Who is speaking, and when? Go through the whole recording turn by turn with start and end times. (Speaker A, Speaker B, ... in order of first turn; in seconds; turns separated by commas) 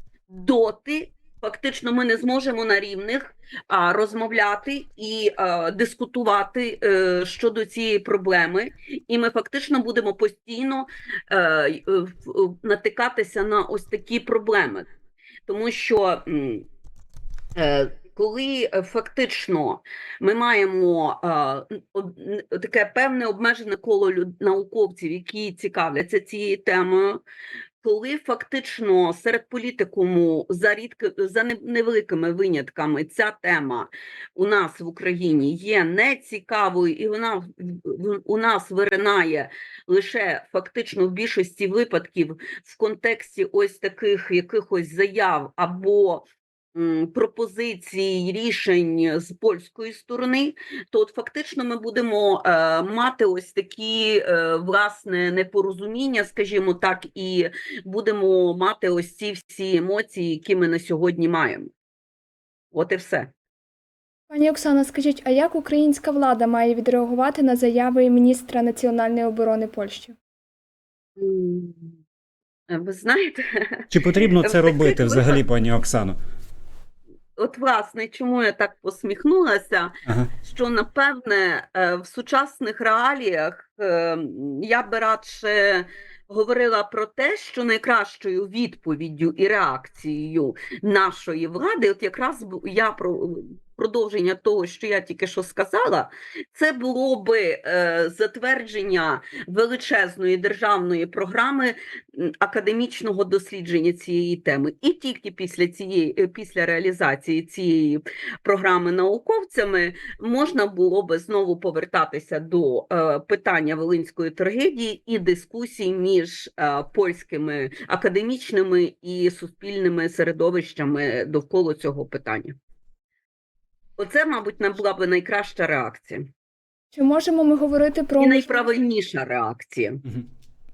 Speaker A: 0.3-14.9, Speaker A: 15.5-16.7, Speaker A: 17.6-27.2, Speaker A: 27.8-61.7, Speaker A: 62.7-63.3, Speaker B: 64.3-70.2, Speaker A: 71.2-72.0, Speaker A: 72.7-75.4, Speaker C: 73.9-76.2, Speaker A: 77.4-122.6, Speaker A: 124.0-126.3, Speaker B: 126.9-128.7, Speaker A: 128.2-130.0